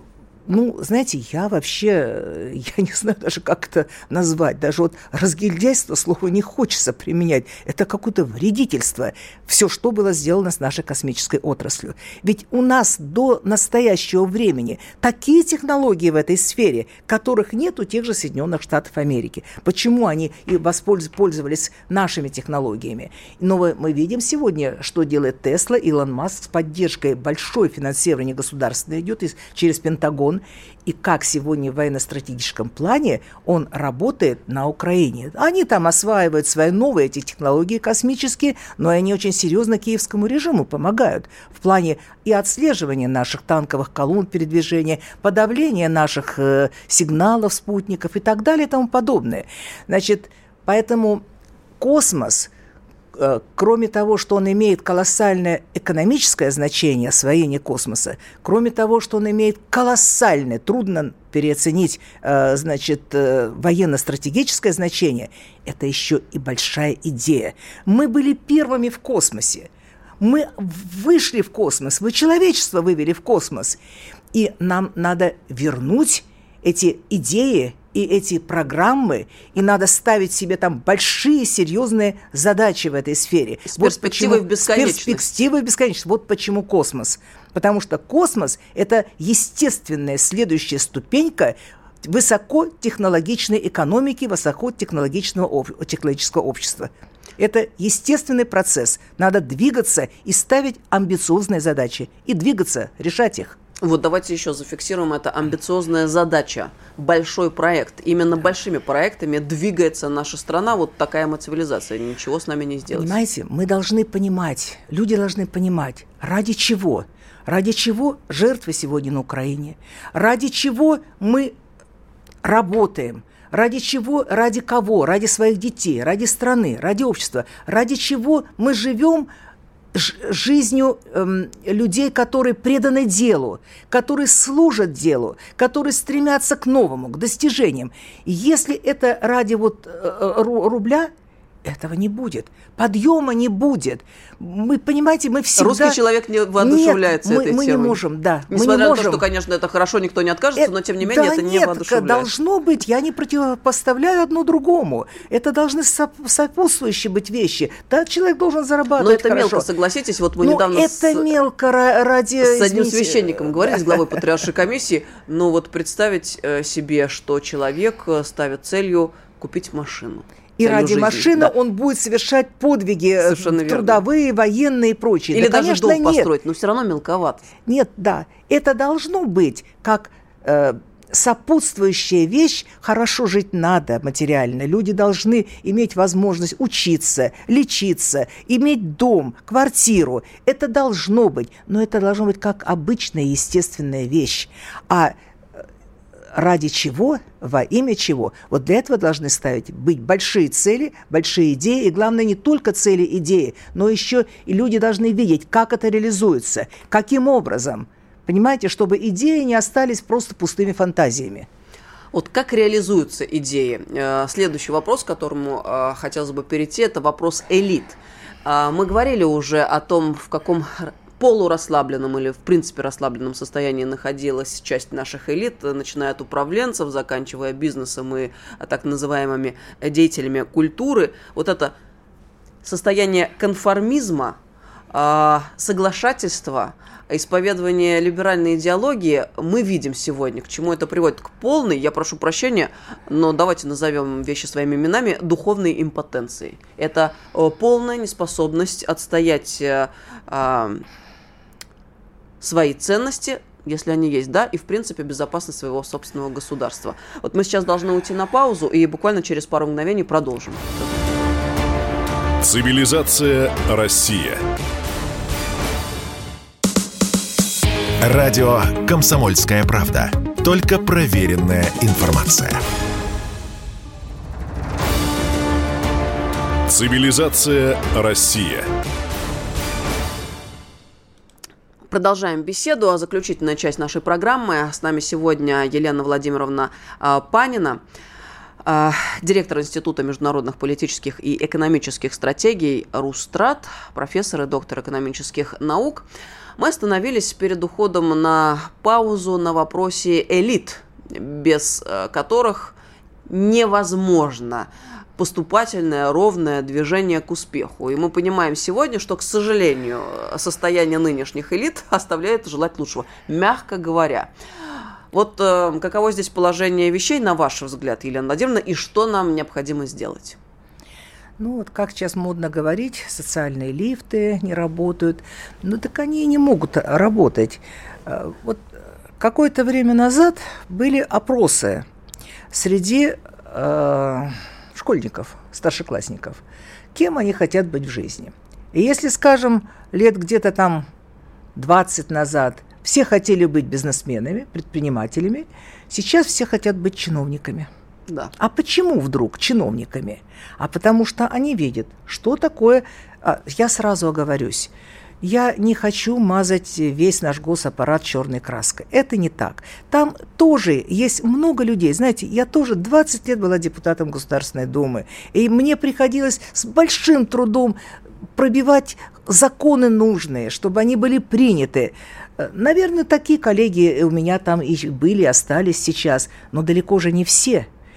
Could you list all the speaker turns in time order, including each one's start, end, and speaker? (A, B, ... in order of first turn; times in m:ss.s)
0:00.5-0:51.2 A
0:51.8-0:52.5 A
0:53.1-1:09.7 A
1:10.2-1:13.8 A
1:14.3-1:43.6 A
1:23.7-1:25.2 B
1:43.8-1:53.2 B
1:52.9-2:01.6 A
2:02.4-2:09.3 A
2:09.9-2:21.1 A
2:21.6-2:26.0 A
2:25.6-2:32.3 B
2:26.6-2:29.2 A
2:30.6-2:39.7 A
2:39.0-2:41.3 B
2:40.4-2:44.2 A
2:42.4-2:51.5 B
2:50.6-2:56.3 A
2:53.2-2:54.0 B
2:55.3-2:57.5 B
2:57.7-3:15.2 A
3:16.3-3:31.5 A
3:32.1-3:51.7 B
3:52.6-3:54.4 B
3:54.9-4:10.8 B
4:12.4-4:21.0 B
4:22.4-4:24.4 C
4:28.0-4:32.6 D
4:36.7-4:38.7 C
4:41.9-4:47.8 B
4:48.6-4:56.1 B
4:56.6-5:02.8 B
5:03.3-5:14.3 B
5:15.1-5:20.4 B
5:21.4-5:31.9 A
5:32.5-5:36.4 A
5:36.9-5:40.9 A
5:41.6-5:47.7 A
5:48.4-6:07.8 A
6:08.4-6:17.7 A